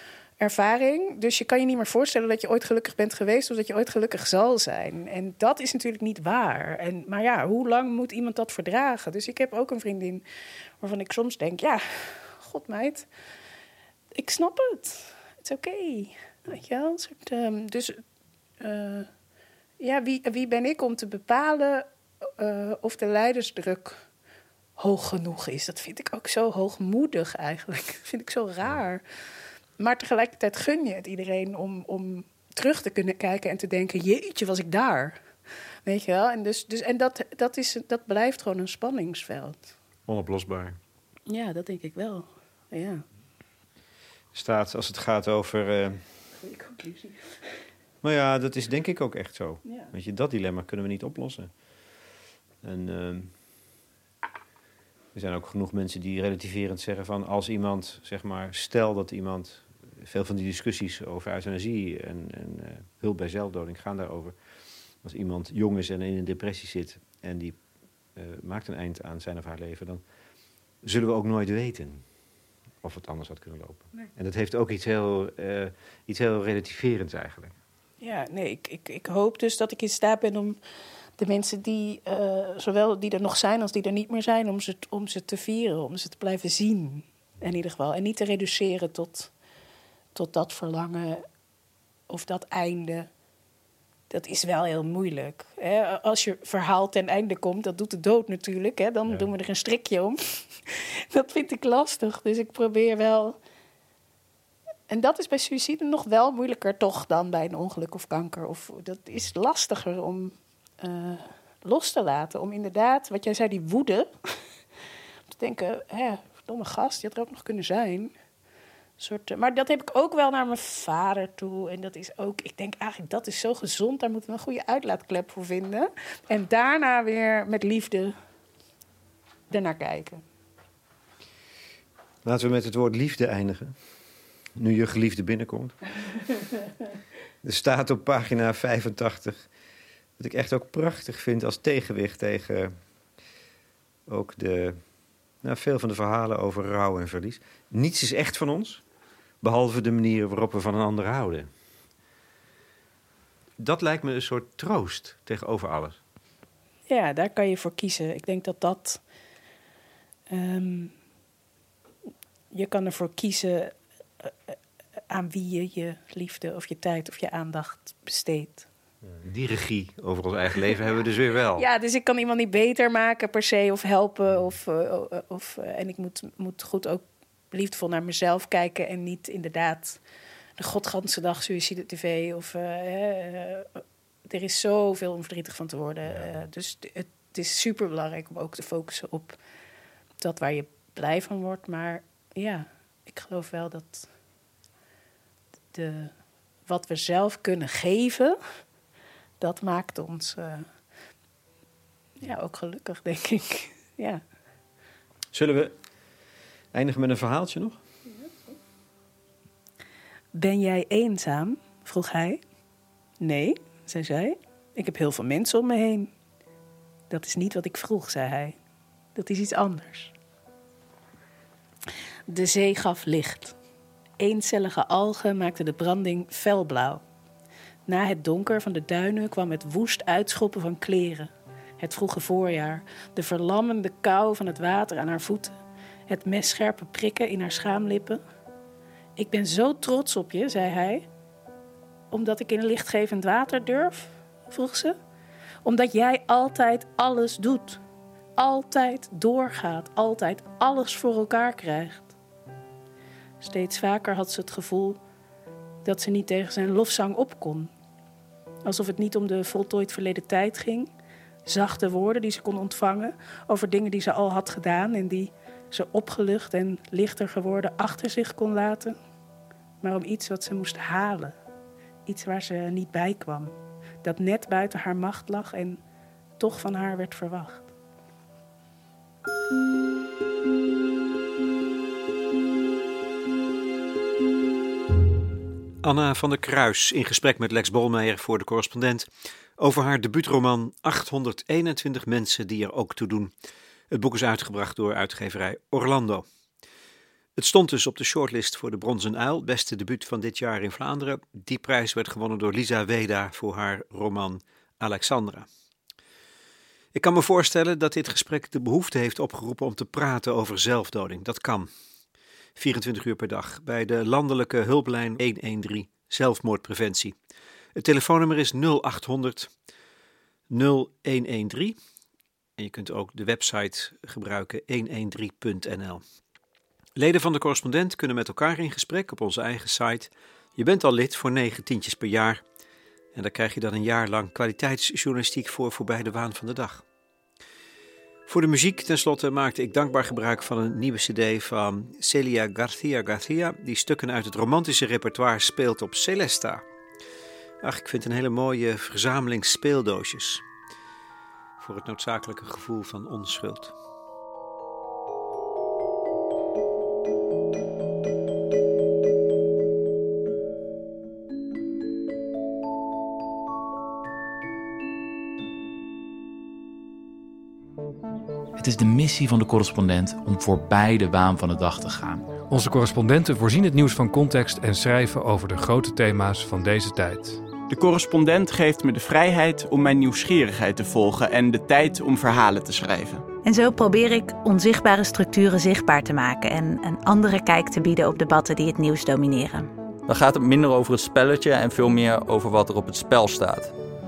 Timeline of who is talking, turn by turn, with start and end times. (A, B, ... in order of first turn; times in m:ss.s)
0:00.4-0:10.2 A
0:10.8-0:13.1 A
0:14.2-0:18.0 A
0:18.6-0:19.1 A
0:19.8-0:24.0 A
0:24.8-0:29.0 A
0:29.8-0:35.2 A
0:35.9-0:39.7 A
0:40.1-0:40.8 B
0:41.3-0:43.0 A
0:44.3-0:46.0 B
0:46.4-0:47.4 A
0:48.0-0:51.5 B
0:49.6-0:49.9 A
0:52.6-0:53.3 B
0:55.1-1:04.4 B
1:05.0-1:07.6 B
1:08.2-1:10.0 B
1:10.8-1:12.0 B
1:12.8-1:17.6 B
1:18.0-1:20.6 A
1:21.2-1:29.3 A
1:30.2-1:31.2 A
1:32.1-1:33.1 A
1:34.1-1:43.4 A
1:44.9-1:54.4 A
1:55.3-1:58.1 A
1:59.0-2:08.1 A
2:09.5-2:10.2 A
2:12.2-2:13.8 B
2:14.6-2:15.8 B
2:17.4-2:19.5 B
2:20.2-2:22.8 B
2:24.1-2:24.8 B
2:25.4-2:28.8 B
2:29.4-2:31.5 B
2:33.6-2:36.0 B
2:36.9-2:39.0 A
2:40.3-2:40.9 A
2:42.5-2:44.6 A
2:45.1-2:48.7 A
2:49.2-2:51.6 B
2:51.5-3:00.0 A
3:00.6-3:09.4 A
3:10.2-3:14.1 A
3:15.7-3:16.1 A
3:16.7-3:18.4 A
3:19.4-3:20.7 A
3:22.2-3:24.2 A
3:25.3-3:25.8 B
3:26.7-3:27.8 B
3:28.1-3:28.6 A
3:30.3-3:32.4 A
3:33.2-3:36.1 A
3:37.1-3:38.6 A
3:39.2-3:40.1 A
3:42.3-3:43.6 A
3:44.2-3:47.0 A
3:47.9-3:58.2 A
3:59.2-4:01.1 A
4:02.1-4:05.0 A
4:05.6-4:07.8 A
4:08.4-4:12.2 A
4:13.4-4:15.0 A
4:15.8-4:17.7 A
4:18.6-4:20.9 A
4:21.5-4:29.0 A
4:29.8-4:31.4 A
4:32.1-4:35.8 A
4:36.4-4:37.7 A
4:45.8-4:53.3 B
4:53.9-4:56.3 B
4:57.4-5:05.5 B
5:06.9-5:11.7 B
5:12.6-5:17.1 B
5:17.8-5:19.5 B
5:20.5-5:21.8 B
5:22.6-5:26.0 B
5:27.0-5:32.4 B
5:33.2-5:36.8 B
5:38.3-5:46.6 B
5:47.6-5:50.4 B
5:51.6-5:53.7 B
6:08.6-6:12.3 C
6:12.5-6:17.4 D
6:17.7-6:23.2 E
6:23.4-6:29.7 F
6:30.1-6:33.7 G